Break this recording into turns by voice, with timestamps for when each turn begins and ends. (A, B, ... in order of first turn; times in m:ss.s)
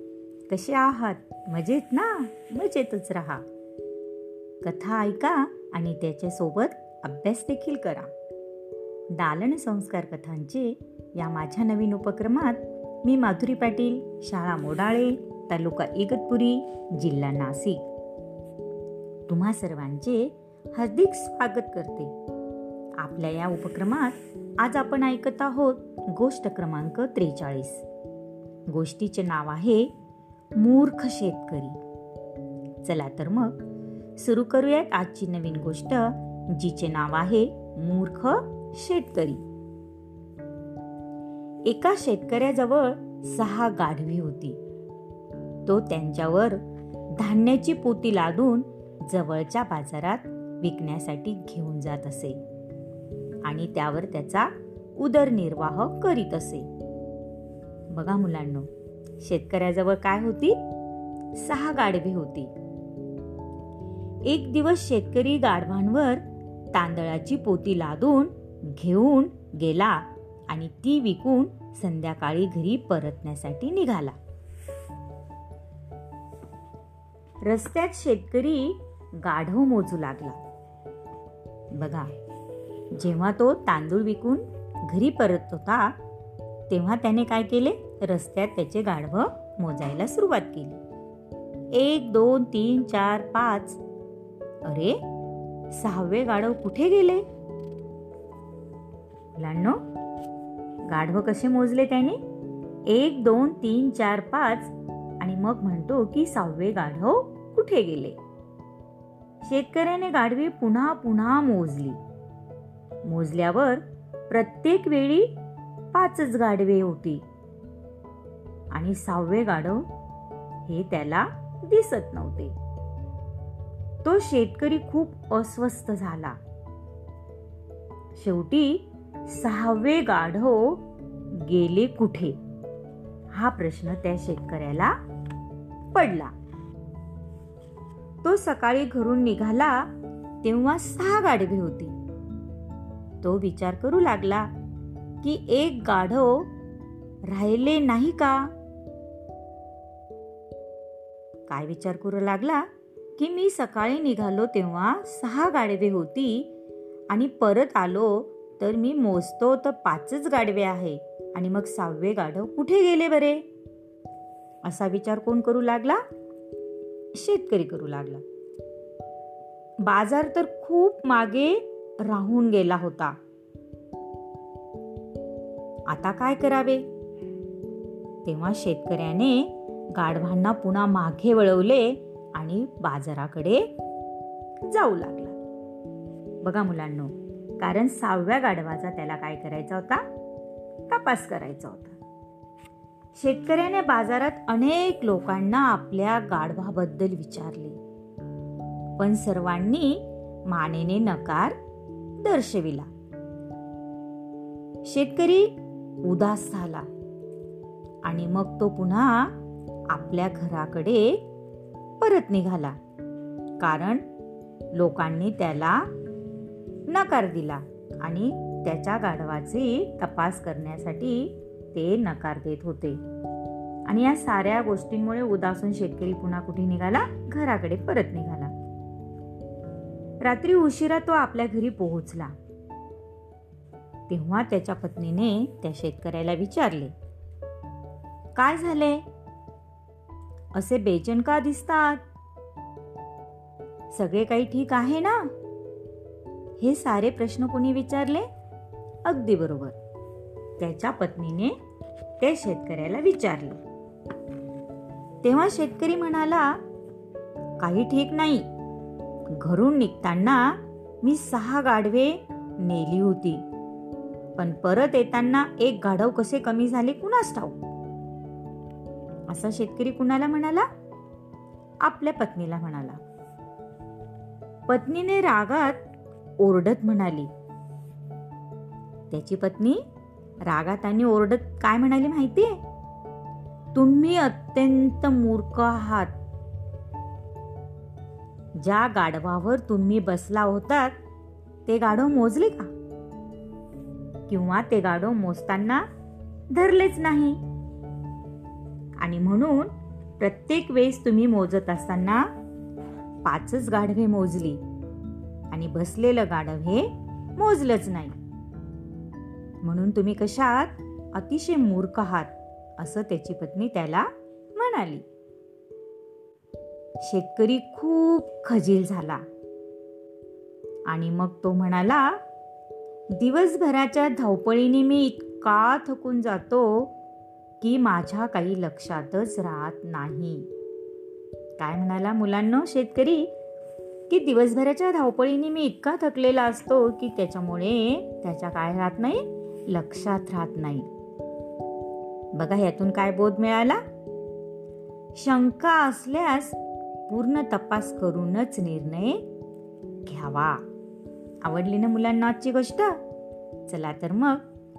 0:00.5-0:03.4 A
0:04.6-0:08.1 A
0:09.1-0:17.8 A
0:19.3-0:22.1 A
0:23.0-0:27.8 A
0:28.7-0:29.9 A
0:30.6-0:31.8 A
0:32.8-0:33.6 A
0:34.2-0:39.4 A
0:41.6-0:44.6 A
0:45.7-0:46.6 A
0:47.2-0:52.4 A
0:53.4-0:56.7 A
0:57.9-0:58.7 A
0:59.2-1:00.6 A
1:01.3-1:02.5 A
1:04.2-1:14.2 A
1:17.4-1:20.4 A
1:21.7-1:22.1 A
1:22.9-1:26.0 A
1:26.7-1:30.8 A
1:31.7-1:33.8 A
1:34.6-1:35.0 A
1:35.7-1:37.2 A
1:39.4-1:39.8 A
1:40.9-1:42.2 A
1:42.9-1:48.2 A
1:49.4-1:52.0 A
1:53.0-1:55.3 A
1:55.9-1:57.2 A
1:58.7-1:59.9 A
2:00.6-2:02.5 A
2:04.0-2:06.4 A
2:08.2-2:10.8 A
2:11.3-2:12.4 A
2:13.3-2:15.0 A
2:15.9-2:16.3 A
2:18.2-2:19.9 A
2:20.4-2:21.9 A
2:23.2-2:24.5 A
2:25.2-2:26.5 A
2:27.3-2:28.5 A
2:31.5-2:36.5 A
2:37.1-2:43.4 A
2:44.6-2:46.0 A
2:47.1-2:48.2 A
2:49.8-2:53.2 A
2:55.9-2:56.8 A
2:58.2-3:03.7 A
3:04.6-3:05.4 A
3:06.4-3:10.0 A
3:10.9-3:12.0 A
3:13.2-3:17.8 A
3:19.0-3:21.6 A
3:22.2-3:22.9 A
3:24.8-3:25.5 A
3:26.0-3:26.9 A
3:28.0-3:29.3 A
3:29.9-3:31.2 A
3:32.0-3:32.8 A
3:33.6-3:34.0 A
3:34.7-3:35.9 A
3:36.9-3:43.0 A
3:43.9-3:48.5 A
3:50.2-3:52.3 A
3:54.1-3:56.9 A
3:58.4-3:59.0 A
4:00.5-4:02.0 A
4:03.9-4:05.3 A
4:06.6-4:08.3 A
4:09.0-4:09.8 A
4:10.6-4:11.6 A
4:12.2-4:13.6 A
4:15.2-4:16.6 A
4:17.6-4:18.5 A
4:19.4-4:23.4 A
4:24.4-4:27.6 A
4:29.3-4:30.7 A
4:31.8-4:33.0 A
4:34.7-4:35.8 A
4:36.4-4:37.3 A
4:39.1-4:39.8 A
4:40.4-4:42.6 A
4:43.7-4:46.2 A
4:48.6-4:51.0 A
4:51.7-4:52.7 A
4:54.3-4:55.8 A
4:56.5-4:57.4 A
4:59.0-5:02.3 A
5:03.2-5:04.6 A
5:05.5-5:08.2 A
5:09.6-5:15.0 A
5:17.0-5:19.2 A
5:20.9-5:22.2 A
5:23.1-5:26.9 A
5:27.6-5:30.5 A
5:31.6-5:33.3 A
5:34.1-5:40.9 A
5:42.3-5:43.8 A
5:45.2-5:49.2 A
5:50.1-5:50.6 A
5:51.4-5:53.0 A
5:53.7-5:54.4 A